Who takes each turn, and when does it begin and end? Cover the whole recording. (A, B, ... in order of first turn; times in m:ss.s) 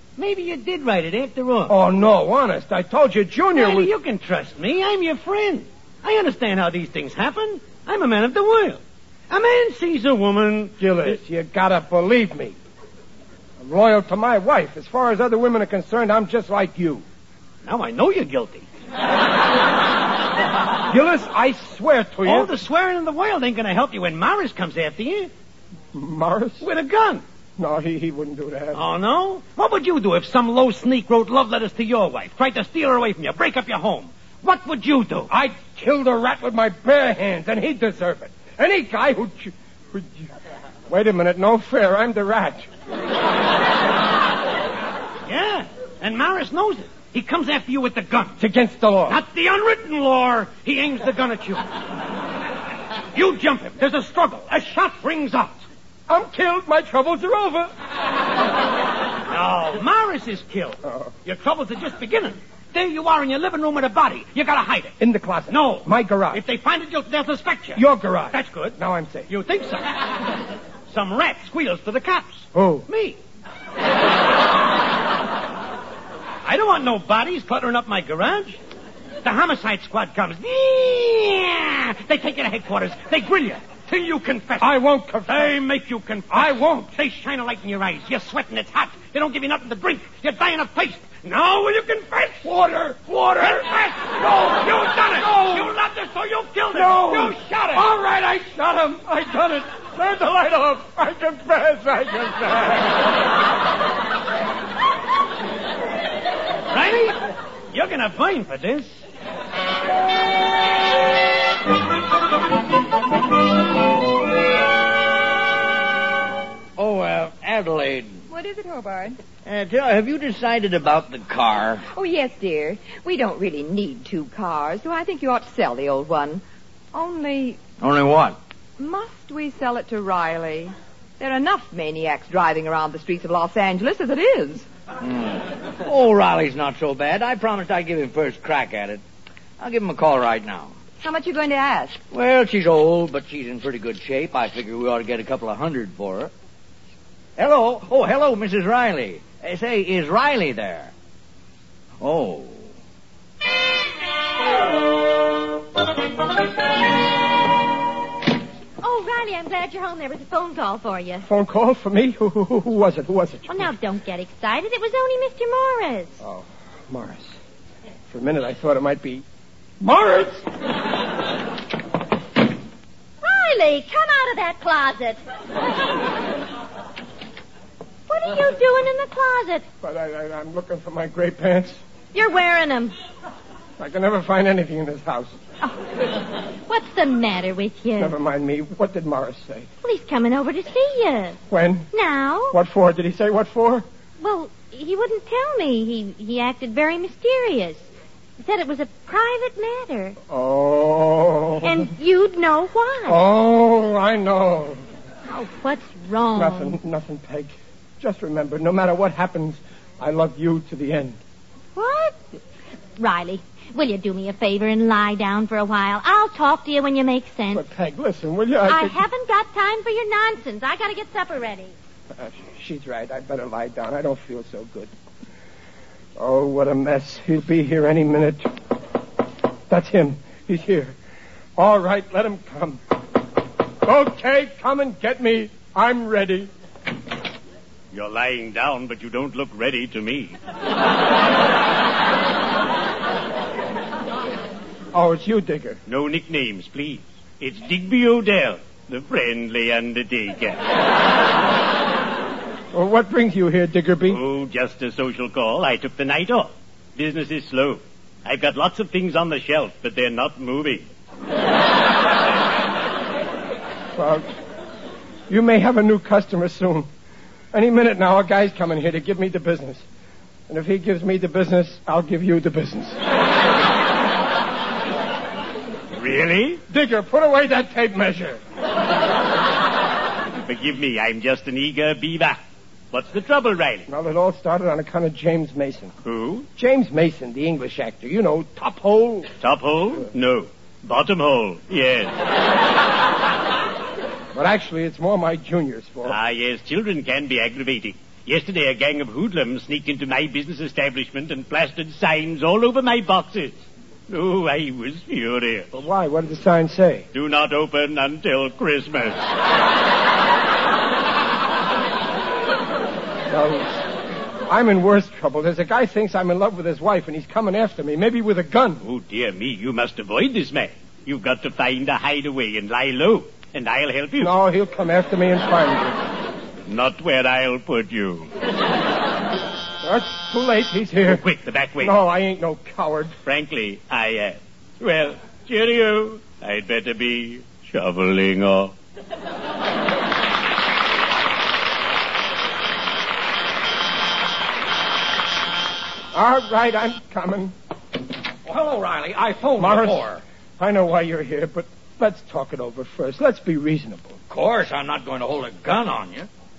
0:00.2-0:01.8 A
0:01.7-0:03.9 B
0:03.5-0:11.2 A
0:10.8-0:12.6 B
0:13.6-0:17.0 B
0:17.6-0:18.7 A
0:20.9-0:22.6 B
0:22.2-0:25.3 A
0:25.9-0:26.7 B
0:26.6-0:27.2 A
0:27.6-0:28.8 B
0:28.7-0:35.3 A
0:35.3-0:40.3 B
0:40.9-0:42.7 B
0:45.3-0:48.4 A
0:48.4-0:49.2 B
0:49.1-0:51.6 A
0:53.1-0:55.6 A
0:56.1-0:57.7 B
0:59.3-1:04.9 A
1:00.8-1:01.1 B
1:05.0-1:06.4 B
1:05.5-1:08.8 A
1:07.8-1:09.3 B
1:09.3-1:09.9 A
1:10.9-1:13.2 A
1:12.5-1:12.9 B
1:16.4-1:18.6 A
1:19.2-1:32.5 A
1:24.6-1:25.6 B
1:26.3-1:26.9 B
1:32.4-1:35.7 B
1:33.1-1:37.9 A
1:36.7-1:43.1 B
1:46.7-1:49.0 A
1:56.8-1:58.2 C
1:58.3-1:59.2 D
1:59.4-2:01.9 C
2:01.9-2:07.6 D
2:07.8-2:08.4 C
2:08.8-2:14.7 D
2:15.0-2:19.0 C
2:19.6-2:20.8 C
2:21.0-2:22.0 D
2:22.1-2:26.3 C
2:27.4-2:30.9 C
2:32.0-2:32.7 C
2:38.8-2:41.3 E
2:41.2-2:43.7 B
2:43.5-2:46.2 E
2:46.2-2:47.4 B
2:48.1-2:49.2 B
2:49.8-2:50.5 B
2:53.2-2:55.2 E
2:58.1-2:59.7 E
2:59.8-3:01.8 B
3:02.1-3:03.0 E
3:03.8-3:05.3 B
3:06.7-3:08.2 E
3:08.0-3:09.7 B
3:09.8-3:11.4 E
3:11.5-3:11.9 B
3:11.9-3:12.6 E
3:12.5-3:13.9 B
3:14.2-3:17.9 E
3:18.4-3:20.2 E
3:20.3-3:21.9 B
3:21.6-3:23.2 E
3:23.1-3:24.8 B
3:25.3-3:26.8 E
3:26.4-3:31.2 B
3:31.8-3:32.2 E
3:33.0-3:37.7 E
3:37.5-3:39.0 B
3:38.7-3:41.7 E
3:42.1-3:44.9 B
3:46.2-3:48.5 B
3:49.7-3:51.0 B
3:51.6-3:52.8 B
3:53.8-3:56.5 B
3:57.9-4:00.4 F
4:04.9-4:05.8 B
4:05.9-4:10.6 F
4:12.7-4:14.2 B
4:14.1-4:20.9 F
4:24.0-4:24.3 B
4:25.3-4:26.9 B
4:27.5-4:29.8 B
4:30.5-4:33.0 B
4:36.0-4:36.6 F
4:36.7-4:38.4 B
4:40.4-4:42.4 F
4:42.9-4:43.9 F
4:43.9-4:46.0 B
4:46.0-4:46.4 F
4:46.6-4:49.3 B
4:49.4-4:52.2 F
4:54.3-4:56.2 B
4:56.1-5:05.7 F
5:05.7-5:07.1 B
5:07.1-5:09.2 F
5:13.3-5:13.9 B
5:14.5-5:18.8 B
5:18.8-5:24.3 F
5:24.2-5:26.0 B
5:26.7-5:28.3 F
5:29.8-5:31.3 B
5:31.1-5:32.0 F
5:31.8-5:33.2 B
5:33.2-5:38.7 F
5:46.1-5:47.5 B
5:48.5-5:50.2 C
5:49.6-5:50.1 B
5:50.6-5:54.2 B
5:54.3-5:56.3 C